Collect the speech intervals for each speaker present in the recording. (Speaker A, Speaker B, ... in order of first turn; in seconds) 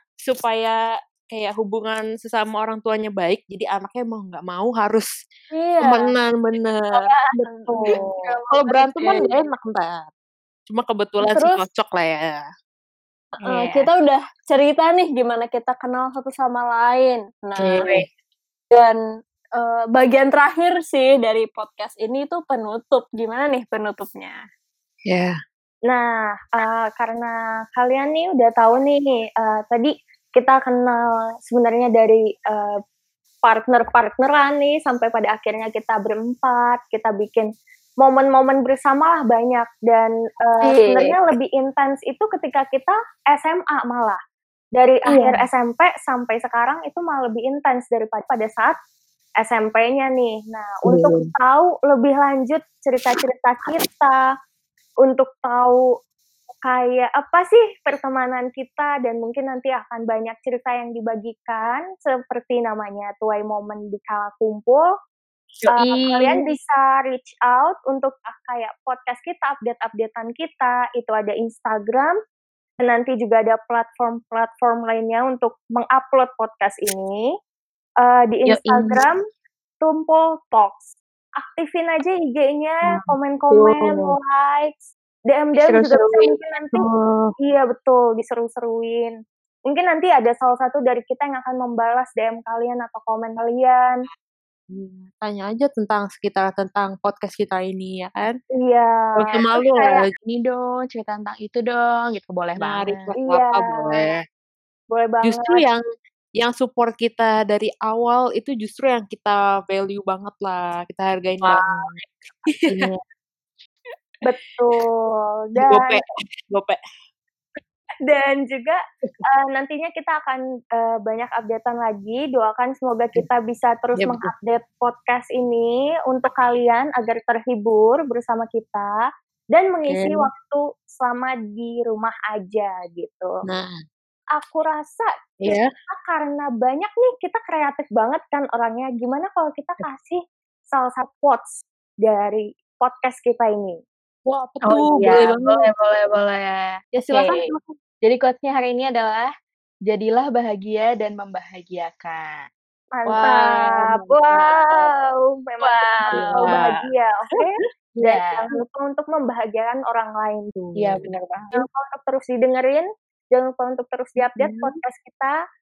Speaker A: 0.2-0.8, 1.3-5.1, 5.8-10.1, 10.7-12.4, 17.6-18.1, 25.1-25.3, 50.9-51.2, 82.9-84.1, 86.8-87.3, 94.7-98.4, 99.1-100.1, 102.5-104.2, 105.2-105.8, 106.3-112.0, 112.5-112.9, 115.6-116.8, 123.9-124.3, 129.9-130.3, 133.5-133.7, 135.4-135.7, 144.2-145.7, 146.9-147.6, 153.1-154.8, 156.1-156.7, 160.6-161.1, 164.2-164.8
Speaker B: 5.5-6.1, 11.2-11.7, 13.4-17.9, 18.7-19.0, 19.6-24.4, 40.6-41.2, 45.0-45.4
Speaker C: 6.9-9.3, 13.3-13.9, 65.6-66.5, 78.5-79.0, 85.5-86.4, 100.2-103.1, 111.4-112.0, 112.7-113.0, 144.6-147.5, 148.0-149.3, 149.9-152.4, 155.6-156.6, 158.0-158.5, 160.8-161.6
Speaker D: 7.7-8.4, 25.9-32.8, 33.4-37.5, 38.0-44.2, 44.7-48.7, 49.4-54.2, 55.0-55.9, 56.6-64.9, 65.7-72.1, 72.8-77.3, 78.0-79.2, 79.8-86.8, 87.4-89.2, 89.7-94.0, 98.5-100.0, 103.2-104.1, 104.9-105.6, 114.2-116.0, 118.0-129.0, 129.5-133.3, 134.3-143.8, 152.9-160.5, 161.5-165.4